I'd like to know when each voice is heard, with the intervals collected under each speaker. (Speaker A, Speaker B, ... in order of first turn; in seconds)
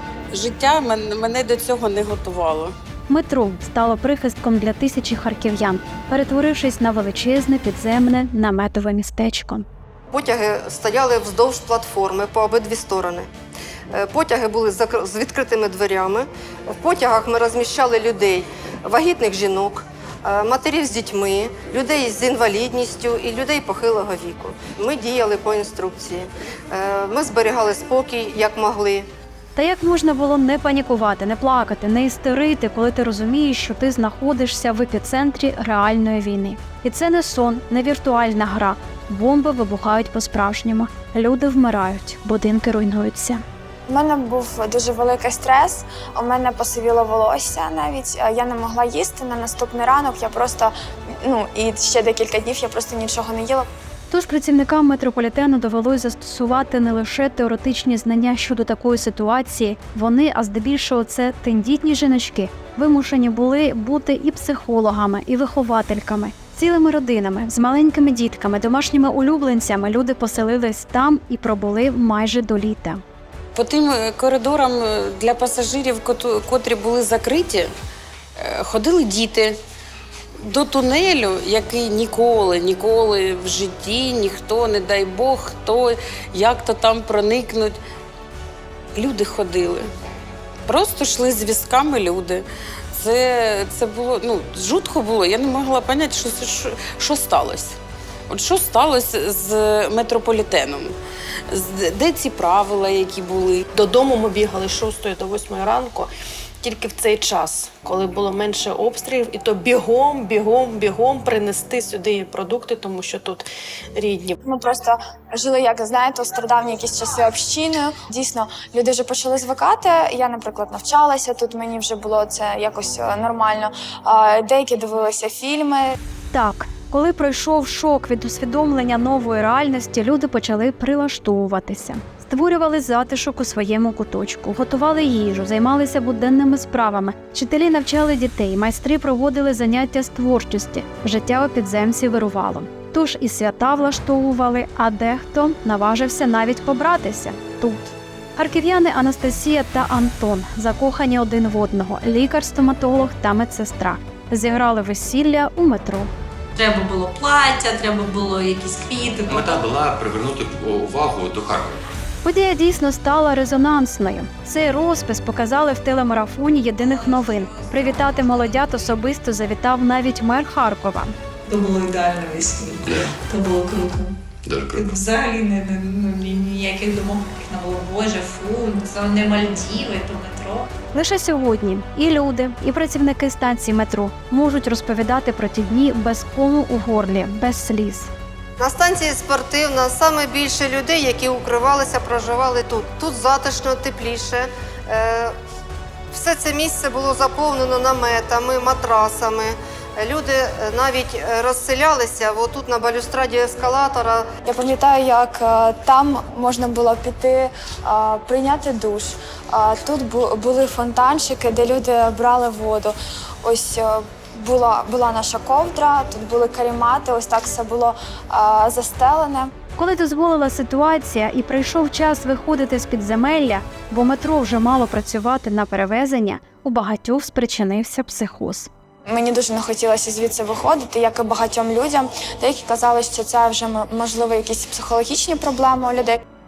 Speaker A: 0.3-2.8, 73.5-77.7, 78.4-79.6, 80.4-87.8, 89.0-89.9, 90.7-97.8, 98.3-101.0, 101.5-103.6
Speaker B: 3.1-9.7, 29.5-43.4, 54.1-73.0, 126.3-156.1, 162.2-171.1, 180.9-188.1, 219.8-228.7
Speaker C: 10.1-13.3, 13.9-29.1, 188.6-195.3, 196.1-204.3
Speaker D: 43.9-53.7, 114.4-125.9, 204.4-219.5, 229.1-236.2
Speaker E: 103.7-106.1, 106.6-113.5, 114.0-114.4
Speaker F: 156.6-159.7, 171.5-174.2, 174.7-180.7
Speaker G: 159.3-161.8, 172.9-173.1, 174.4-174.9